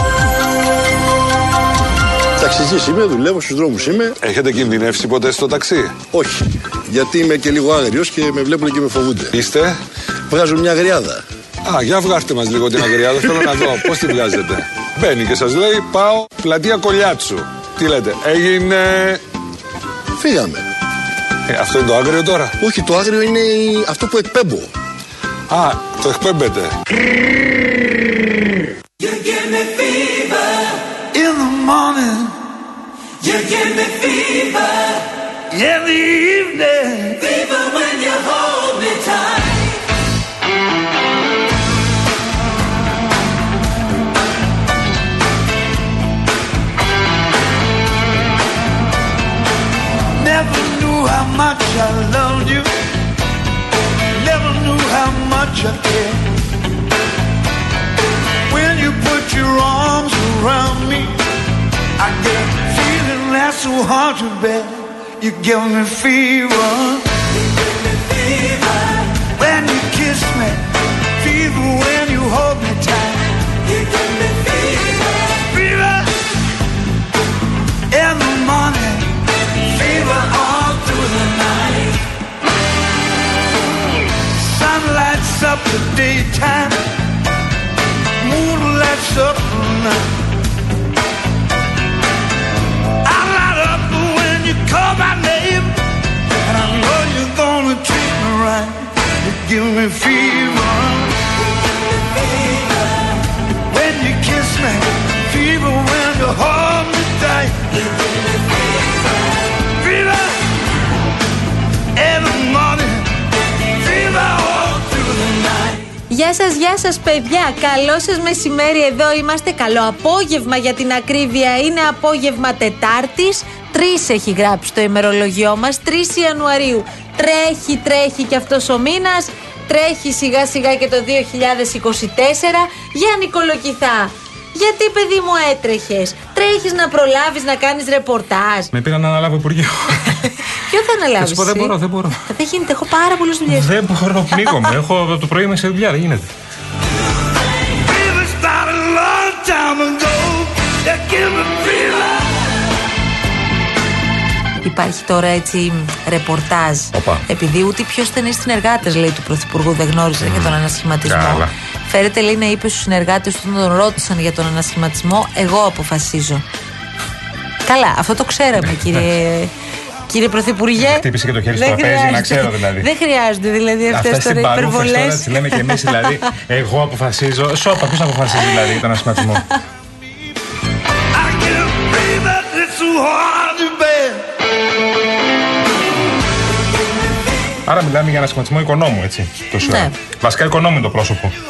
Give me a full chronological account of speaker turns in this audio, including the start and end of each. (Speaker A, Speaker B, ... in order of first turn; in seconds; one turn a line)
Speaker A: 2.4-4.2
Speaker B: 4.2-6.0
Speaker A: 6.1-9.3
Speaker B: 9.3-9.8
Speaker A: 10.3-11.2
Speaker B: 11.6-19.2
Speaker A: 13.6-13.9
Speaker A: 20.2-20.7
Speaker B: 21.5-22.6
Speaker A: 22.6-24.7
Speaker B: 25.5-26.7
Speaker C: 31.1-32.3
Speaker C: 33.3-34.5
Speaker C: 35.5-37.9
Speaker C: 50.2-52.7
Speaker C: 54.1-56.2
Speaker C: 58.5-61.1
Speaker C: 62.0-67.0
Speaker C: 69.4-70.6
Speaker C: 71.2-73.3
Speaker C: 73.8-76.1
Speaker C: 77.9-79.1
Speaker C: 79.7-81.9
Speaker C: 84.4-86.8
Speaker C: 88.2-90.0
Speaker C: 93.0-95.8
Speaker C: 96.4-101.1
Speaker C: 103.7-107.8
Speaker C: 109.8-110.5
Speaker C: 111.9-113.1
Speaker C: 113.8-115.8
Speaker D: 116.1-138.7
Speaker E: 138.7-140.2
Speaker D: 140.6-141.7
Speaker E: 141.2-142.2
Speaker D: 142.3-143.7
Speaker E: 143.5-146.3
Speaker C: 147.7-152.3
Speaker D: 154.6-166.4
Speaker E: 156.9-157.2
Speaker E: 160.2-161.5
Speaker D: 167.7-169.5
Speaker D: 170.1-171.0
Speaker E: 170.8-172.9
Speaker D: 171.6-176.0
Speaker E: 173.9-179.4
Speaker C: 181.1-184.2
Speaker E: 187.6-191.3
Speaker D: 189.6-189.9